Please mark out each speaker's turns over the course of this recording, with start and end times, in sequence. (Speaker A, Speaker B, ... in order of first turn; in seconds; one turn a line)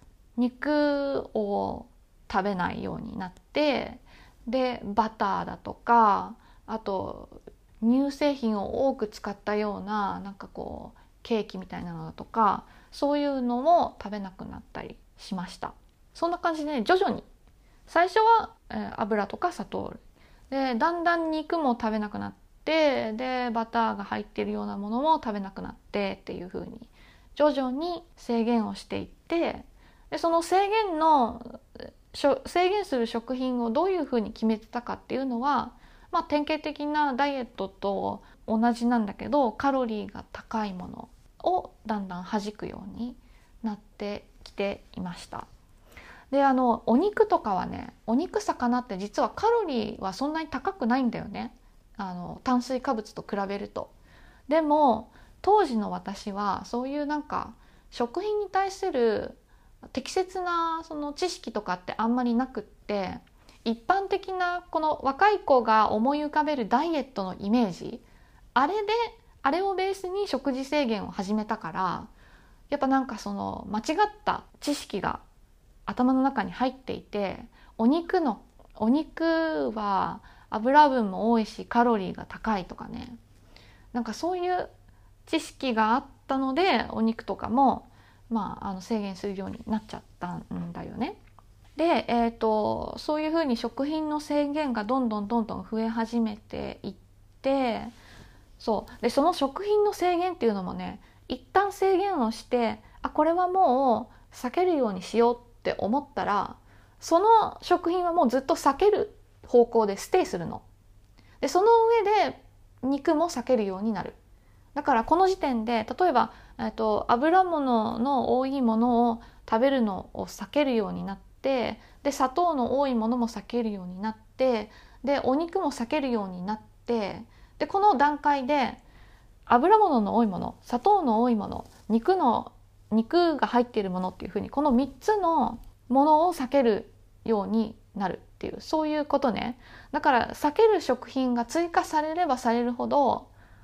Speaker A: 0.4-17.2
Speaker A: 17.9-20.0
Speaker A: 20.5-45.5
Speaker A: 46.3-53.9
Speaker A: 54.5-59.4
Speaker A: 59.9-68.0
Speaker A: 68.5-72.1
Speaker A: 72.7-75.2
Speaker A: 75.9-83.2
Speaker A: 83.9-84.7
Speaker A: 85.3-91.2
Speaker A: 91.8-97.9
Speaker A: 98.6-110.6
Speaker A: 111.4-114.2
Speaker A: 114.7-128.8
Speaker A: 129.5-143.3